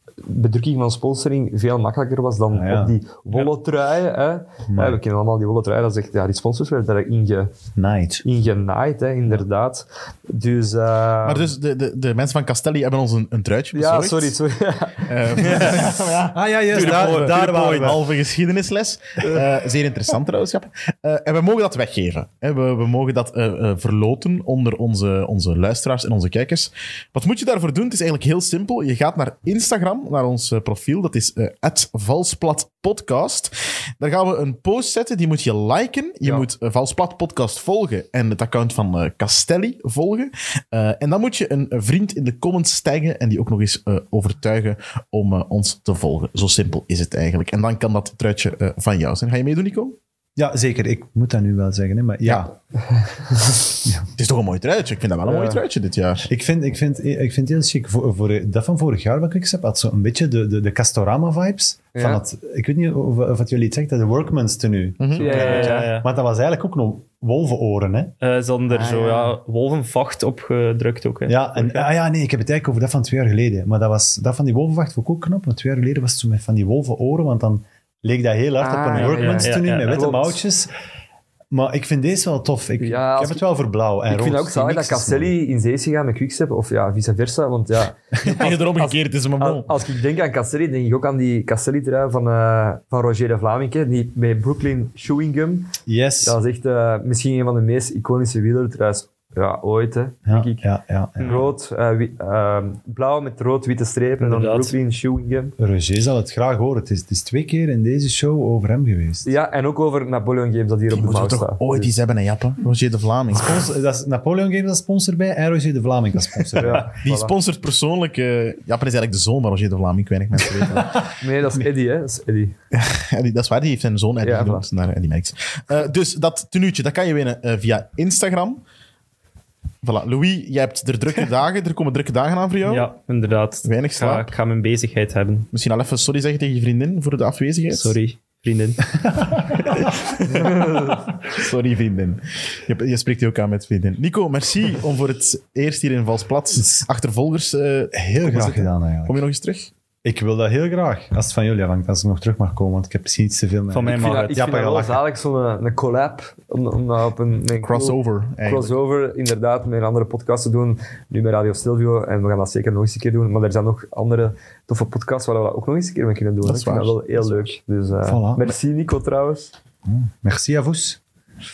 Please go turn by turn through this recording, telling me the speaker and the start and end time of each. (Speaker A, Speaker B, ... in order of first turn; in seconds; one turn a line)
Speaker A: 0.2-7.5
Speaker B: 2.5-2.9
Speaker B: 4.7-5.0
Speaker B: 7.8-8.2
Speaker A: 8.2-11.5
Speaker C: 11.2-14.3
Speaker A: 13.7-15.3
Speaker C: 15.1-50.0
Speaker D: 15.4-16.0
Speaker B: 15.5-18.1
Speaker D: 16.7-18.0
Speaker A: 36.2-36.5
Speaker B: 50.4-52.5
Speaker A: 52.9-53.7
Speaker C: 54.1-56.3
Speaker A: 55.2-55.6
Speaker B: 56.2-68.1
Speaker A: 61.9-62.2
Speaker C: 65.0-65.8
Speaker A: 65.2-65.9
Speaker D: 65.2-66.1
Speaker D: 68.2-71.9
Speaker A: 68.7-69.4
Speaker B: 71.3-80.7
Speaker A: 78.6-80.4
Speaker D: 78.9-80.1
Speaker B: 81.5-85.4
Speaker A: 82.8-83.4
Speaker A: 84.1-105.5
Speaker C: 88.2-89.7
Speaker B: 95.8-96.4
Speaker B: 100.2-101.4
Speaker D: 101.2-101.5
Speaker D: 104.2-104.7
Speaker B: 105.6-109.3
Speaker A: 109.2-111.9
Speaker C: 110.9-113.7
Speaker B: 113.3-116.9
Speaker A: 116.5-117.3
Speaker C: 116.9-121.1
Speaker B: 120.6-121.1
Speaker A: 121.0-122.5
Speaker C: 122.7-128.6
Speaker A: 124.2-124.6
Speaker C: 129.8-132.9
Speaker D: 132.6-135.5
Speaker C: 133.6-134.3
Speaker C: 135.5-137.9
Speaker D: 137.7-140.5
Speaker B: 139.0-139.7
Speaker C: 140.3-149.7
Speaker B: 147.9-149.2
Speaker B: 150.0-155.0
Speaker D: 153.7-154.3
Speaker A: 153.8-169.5
Speaker C: 157.6-158.8
Speaker C: 166.4-167.5
Speaker B: 168.0-168.6
Speaker B: 169.8-171.0